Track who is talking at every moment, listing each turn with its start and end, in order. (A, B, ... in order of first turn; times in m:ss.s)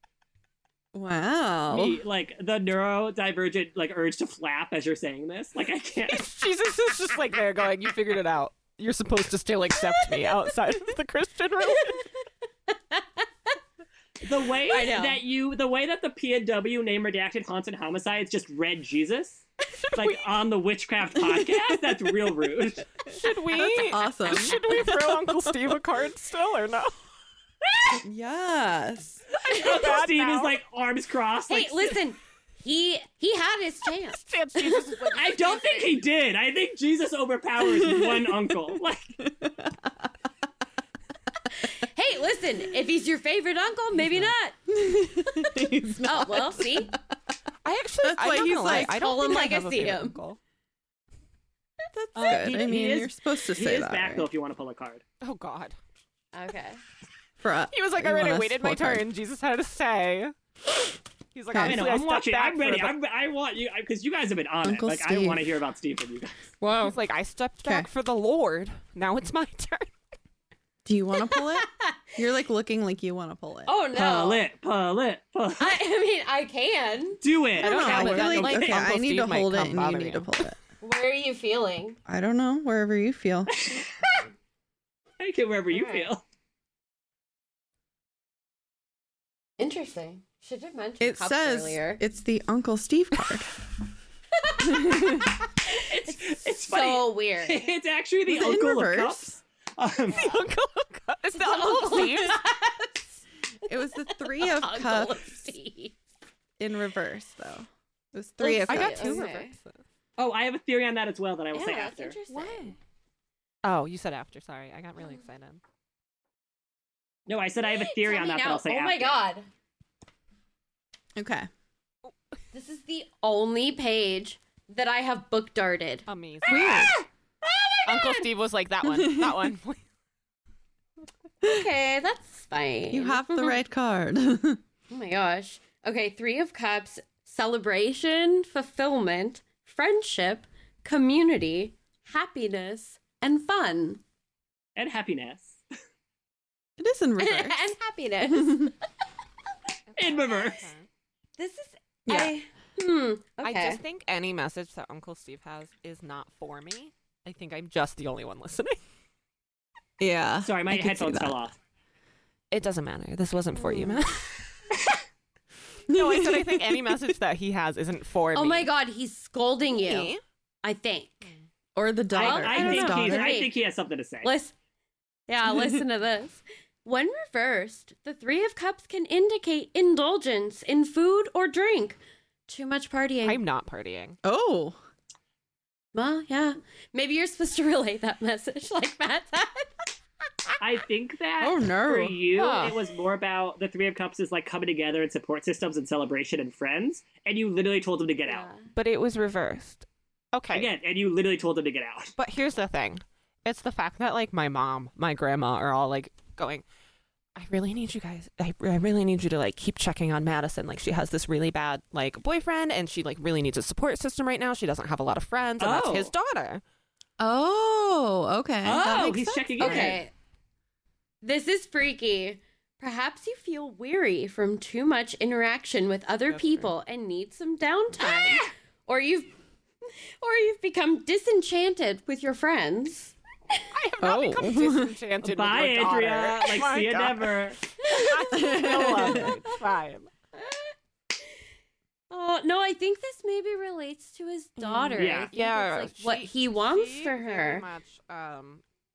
0:00.9-0:02.0 A
0:01.7-0:06.3 B
0:06.1-0:12.0 C
0:12.7-0:13.2 D
0:14.2-0:22.9 B
0:14.7-0:15.2 D
0:19.8-0:20.2 C
0:21.2-0:21.9 A
0:23.1-0:26.9 C
0:23.5-0:25.7 A
0:28.0-0:29.2 A
0:29.4-0:30.6 C
0:29.4-0:32.0 B
0:31.5-0:35.1 D
0:34.1-0:36.0 C
0:35.1-0:39.1 B
0:37.6-0:38.5 A
0:39.2-0:40.1 A
0:41.5-0:47.0 D
0:44.7-0:47.0 A
0:47.6-0:50.4 C
0:48.0-0:49.0 A
0:48.5-0:50.2 D
0:51.9-0:54.3 A
0:52.1-0:55.0 B
0:55.2-0:55.8 C
0:56.3-0:56.8 D
0:57.4-0:59.0 A
0:57.7-1:00.3 C
1:01.3-1:02.9 C
1:01.5-1:01.8 A
1:01.6-1:06.3 B
1:04.6-1:05.4 A
1:06.6-1:06.9 D
1:06.8-1:09.9 C
1:10.8-1:13.8 A
1:11.2-1:12.0 D
1:13.6-1:14.4 D
1:13.9-1:15.8 B
1:15.6-1:17.2 D
1:17.2-1:18.9 B
1:17.6-1:20.3 C
1:17.6-1:20.6 A
1:20.8-1:22.0 D
1:22.0-1:23.6 A
1:23.5-1:24.1 B
1:25.2-1:26.2 B
1:25.7-1:26.1 D
1:29.6-1:32.0 D
1:31.0-1:33.5 A
1:34.4-1:37.7 D
1:34.6-1:35.3 A
1:35.8-1:40.3 B
1:38.3-1:39.4 A
1:40.1-1:40.5 D
1:40.1-1:42.4 C
1:41.3-1:43.2 D
1:43.6-1:45.4 A
1:44.1-1:46.0 D
1:46.6-1:49.2 A
1:48.4-1:49.5 D
1:48.7-1:49.8 C
1:50.2-1:52.2 B
1:51.5-1:52.8 D
1:52.3-1:52.8 C
1:53.6-1:55.6 C
1:57.3-1:59.2 B
1:57.6-1:59.5 D
2:01.1-2:01.5 A
2:02.5-2:06.8 D
2:06.1-2:07.0 C
2:06.5-2:06.9 A
2:07.4-2:08.3 D
2:07.8-2:09.8 C
2:08.8-2:09.5 A
2:11.4-2:13.6 D
2:12.9-2:14.6 A
2:14.9-2:24.0 D
2:24.8-2:25.6 B
2:26.8-2:27.6 A
2:27.2-2:28.7 D
2:28.3-2:28.7 A
2:29.9-2:30.9 C
2:30.0-2:30.7 B
2:31.4-2:33.8 D
2:32.0-2:32.3 A
2:33.4-2:38.8 C
2:40.0-2:41.4 A
2:40.4-2:41.6 B
2:42.5-2:44.6 C
2:43.5-2:44.0 D
2:45.9-2:47.1 A
2:45.9-2:48.7 C
2:48.3-2:51.3 D
2:49.8-2:50.2 C
2:51.8-2:53.4 A
2:52.1-2:53.5 D
2:52.1-2:54.3 B
2:54.2-2:54.5 D
2:55.3-3:03.4 D
2:55.5-2:55.8 A
3:03.2-3:04.2 C
3:04.2-3:04.8 A
3:05.9-3:09.9 D
3:10.6-3:18.5 B
3:11.4-3:12.2 A
3:12.3-3:12.8 C
3:18.3-3:18.7 D
3:18.7-3:20.7 C
3:20.5-3:22.1 B
3:22.2-3:26.6 C
3:27.4-3:36.6 C
3:35.6-3:36.1 B
3:37.2-3:40.0 A
3:38.6-3:40.0 B
3:39.6-3:40.1 D
3:41.2-3:49.3 D
3:46.3-3:46.7 C
3:50.2-3:53.1 D
3:53.7-4:00.1 C
3:54.0-3:54.9 A
3:55.2-3:57.6 B
3:57.8-3:59.5 D
3:58.3-3:59.4 A
4:00.3-4:00.7 D
4:02.1-4:07.6 D
4:04.6-4:08.6 C
4:05.0-4:05.3 B